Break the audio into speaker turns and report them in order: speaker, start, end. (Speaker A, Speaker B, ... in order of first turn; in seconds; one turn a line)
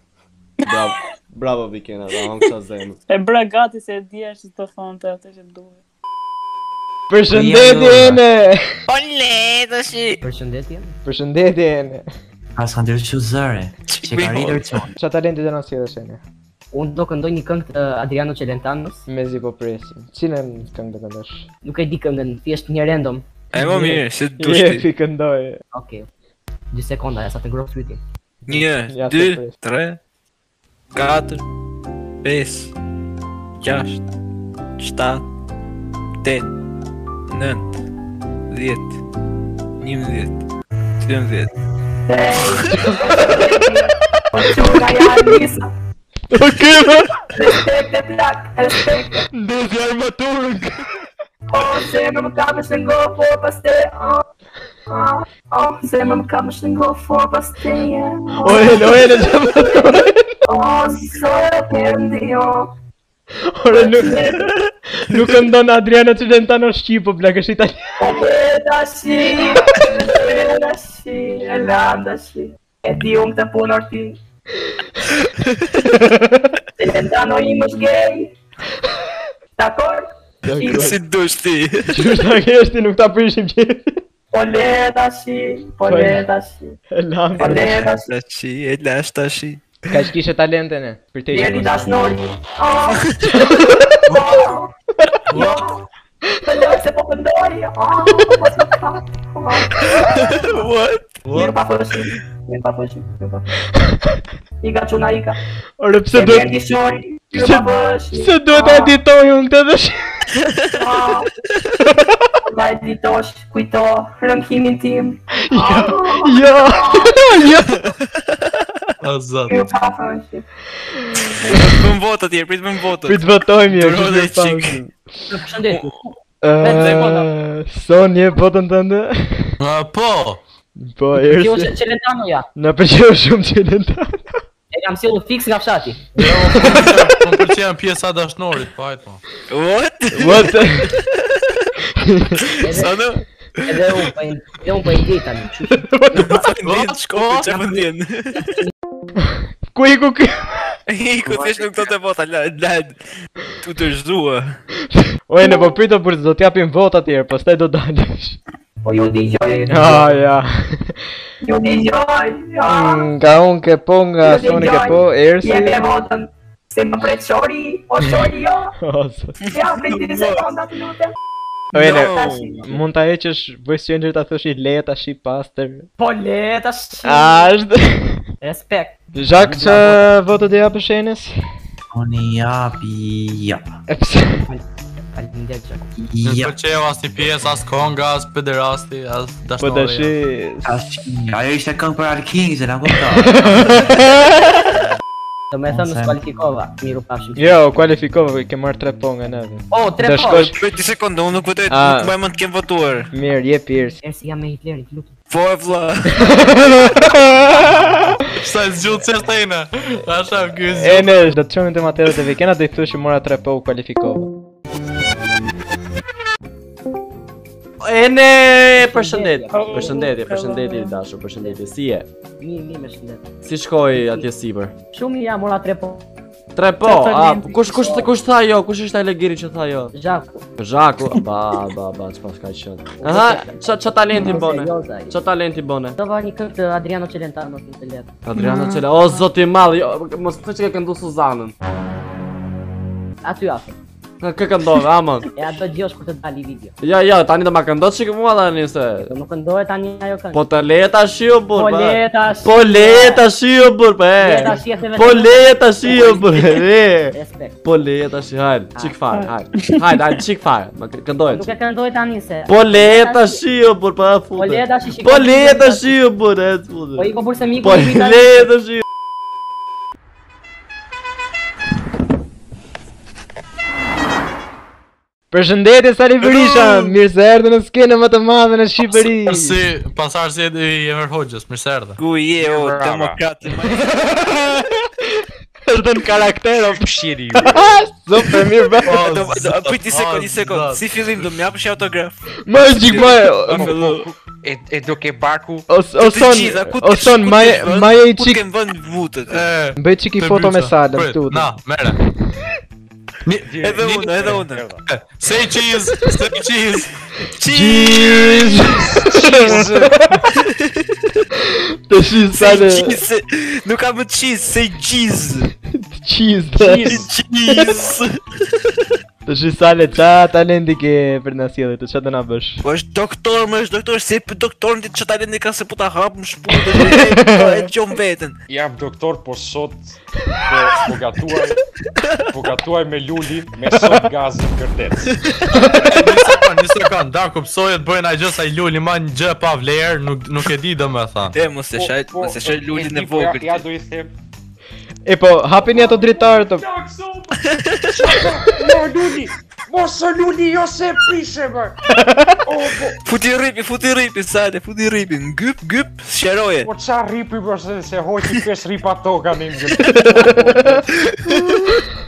Speaker A: 0.7-3.0
Speaker B: 3.1-5.8
Speaker C: 7.1-8.6
Speaker D: 7.3-8.2
Speaker E: 8.9-10.2
Speaker F: 10.2-10.9
Speaker C: 11.1-12.0
Speaker D: 12.6-14.9
Speaker E: 13.9-14.8
Speaker C: 15.0-16.2
Speaker F: 16.7-19.0
Speaker C: 19.1-21.4
Speaker F: 21.6-23.2
Speaker E: 23.5-24.9
Speaker C: 23.6-25.6
Speaker F: 25.7-26.1
Speaker F: 26.7-28.0
Speaker C: 28.5-29.6
Speaker E: 28.5-30.0
Speaker E: 30.9-31.4
Speaker E: 32.2-32.7
Speaker E: 33.6-34.0
Speaker E: 34.8-35.3
Speaker E: 36.2-36.5
Speaker E: 37.3-37.7
Speaker E: 38.5-39.0
Speaker E: 39.8-40.4
Speaker E: 41.0-41.5
Speaker G: 42.1-45.7
Speaker C: 46.3-47.1
Speaker G: 47.3-49.2
Speaker C: 49.3-50.7
Speaker G: 51.5-54.2
Speaker G: 54.9-58.9
Speaker C: 58.4-60.2
Speaker G: 60.5-62.7
Speaker C: 63.6-64.2
Speaker G: 63.7-64.5
Speaker C: 65.1-67.8
Speaker G: 68.0-74.2
Speaker E: 75.4-75.7
Speaker C: 75.9-76.5
Speaker G: 76.8-78.3
Speaker G: 79.6-80.9
Speaker C: 80.4-81.0
Speaker E: 80.7-82.1
Speaker C: 81.9-84.0
Speaker G: 84.3-86.7
Speaker C: 85.9-86.2
Speaker C: 86.9-87.7
Speaker G: 87.4-88.1
Speaker E: 88.1-89.6
Speaker C: 89.9-91.9
Speaker G: 91.3-93.1
Speaker C: 93.3-93.8
Speaker G: 94.1-94.7
Speaker G: 95.3-95.8
Speaker H: 95.3-95.6
Speaker G: 96.4-100.7
Speaker E: 100.1-101.2
Speaker G: 101.3-103.4
Speaker G: 104.6-105.4
Speaker C: 105.8-106.5
Speaker G: 106.1-109.0
Speaker C: 107.3-110.0
Speaker G: 110.7-111.3
Speaker G: 112.5-117.2
Speaker C: 115.5-117.8
Speaker E: 117.8-118.7
Speaker H: 119.0-119.6
Speaker G: 119.5-120.4
Speaker E: 121.5-124.8
Speaker C: 123.1-125.0
Speaker F: 125.3-126.0
Speaker E: 125.7-126.0
Speaker C: 126.4-129.6
Speaker F: 126.6-127.3
Speaker H: 129.6-130.4
Speaker C: 130.8-131.8
Speaker F: 131.3-132.5
Speaker C: 132.6-134.3
Speaker F: 134.7-136.1
Speaker C: 136.2-137.0
Speaker H: 136.2-139.2
Speaker E: 139.5-141.7
Speaker C: 140.1-140.9
Speaker C: 142.0-142.4
Speaker F: 142.6-142.9
Speaker E: 142.6-143.8
Speaker F: 143.7-146.4
Speaker C: 145.8-146.3
Speaker E: 146.2-148.5
Speaker H: 146.6-147.8
Speaker C: 149.2-150.6
Speaker E: 150.9-153.0
Speaker E: 153.6-154.6
Speaker C: 155.3-158.4
Speaker G: 158.8-160.1
Speaker C: 159.7-161.0
Speaker G: 161.4-163.1
Speaker C: 162.7-165.8
Speaker G: 164.2-168.7
Speaker C: 168.8-169.4
Speaker E: 169.4-170.5
Speaker G: 169.5-171.1
Speaker C: 171.7-175.9
Speaker E: 171.8-172.7
Speaker G: 171.9-172.6
Speaker G: 176.0-177.0
Speaker F: 176.1-177.1
Speaker C: 177.0-178.2
Speaker F: 178.4-178.9
Speaker C: 179.2-181.3
Speaker D: 181.9-183.8
Speaker C: 183.9-184.4
Speaker F: 185.2-185.9
Speaker D: 186.0-186.6
Speaker H: 186.2-190.1
Speaker C: 189.6-190.7
Speaker D: 190.6-193.8
Speaker C: 193.2-194.5
Speaker F: 195.5-197.5
Speaker D: 195.7-196.2
Speaker C: 197.4-200.6
Speaker F: 199.7-200.5
Speaker E: 200.3-203.1
Speaker C: 201.7-202.1
Speaker C: 203.1-204.0
Speaker F: 204.0-205.1
Speaker E: 205.3-206.2
Speaker C: 206.2-207.9
Speaker H: 208.3-211.3
Speaker C: 210.8-214.3
Speaker A: 217.8-222.1
Speaker F: 218.8-220.1
Speaker B: 219.5-221.0
Speaker F: 222.4-223.3
Speaker A: 223.4-224.7
Speaker F: 223.9-224.3
Speaker F: 224.9-226.1
Speaker A: 226.6-229.9
Speaker B: 226.8-227.9
Speaker F: 226.9-228.1
Speaker F: 229.9-230.4
Speaker A: 230.6-236.0
Speaker F: 233.0-235.2
Speaker F: 236.0-238.1
Speaker A: 238.2-241.5
Speaker B: 238.4-238.8
Speaker F: 243.2-243.8
Speaker A: 244.2-245.3
Speaker F: 245.4-246.7
Speaker A: 246.8-249.1
Speaker F: 249.1-250.4
Speaker A: 250.3-261.5
Speaker F: 251.5-253.3
Speaker F: 254.2-257.6
Speaker F: 258.8-259.0
Speaker B: 259.1-260.2
Speaker F: 261.3-263.4
Speaker A: 262.5-267.1
Speaker F: 264.4-265.9
Speaker F: 267.0-268.5
Speaker A: 267.6-268.8
Speaker C: 275.3-279.6
Speaker H: 278.9-282.0
Speaker E: 282.0-284.2
Speaker I: 282.4-283.2
Speaker C: 283.7-289.0
Speaker I: 286.6-287.8
Speaker H: 288.8-291.3
Speaker E: 288.9-294.1
Speaker C: 292.4-293.8
Speaker I: 292.9-295.7
Speaker C: 295.7-298.4
Speaker E: 296.0-299.5
Speaker H: 299.3-302.0
Speaker C: 299.8-301.5
Speaker H: 303.3-304.2
Speaker I: 303.4-304.8
Speaker E: 303.6-304.6
Speaker H: 304.9-306.9
Speaker E: 307.3-309.7
Speaker C: 307.5-310.2
Speaker I: 308.9-310.0
Speaker E: 310.2-310.9
Speaker C: 311.4-313.0
Speaker E: 312.3-315.5
Speaker C: 315.7-317.7
Speaker I: 316.6-317.1
Speaker E: 316.9-318.8
Speaker C: 319.3-322.6
Speaker E: 322.6-328.4
Speaker C: 326.6-327.7
Speaker I: 328.5-331.6
Speaker I: 332.3-335.1
Speaker C: 335.5-335.9
Speaker H: 335.8-341.4
Speaker E: 341.3-343.6
Speaker I: 341.7-344.1
Speaker C: 345.1-346.7
Speaker I: 345.7-347.4
Speaker E: 347.4-348.2
Speaker I: 347.9-351.8
Speaker C: 351.9-352.4
Speaker I: 352.5-353.0
Speaker E: 353.1-356.7
Speaker I: 356.6-360.9
Speaker C: 360.1-360.8
Speaker E: 361.1-361.8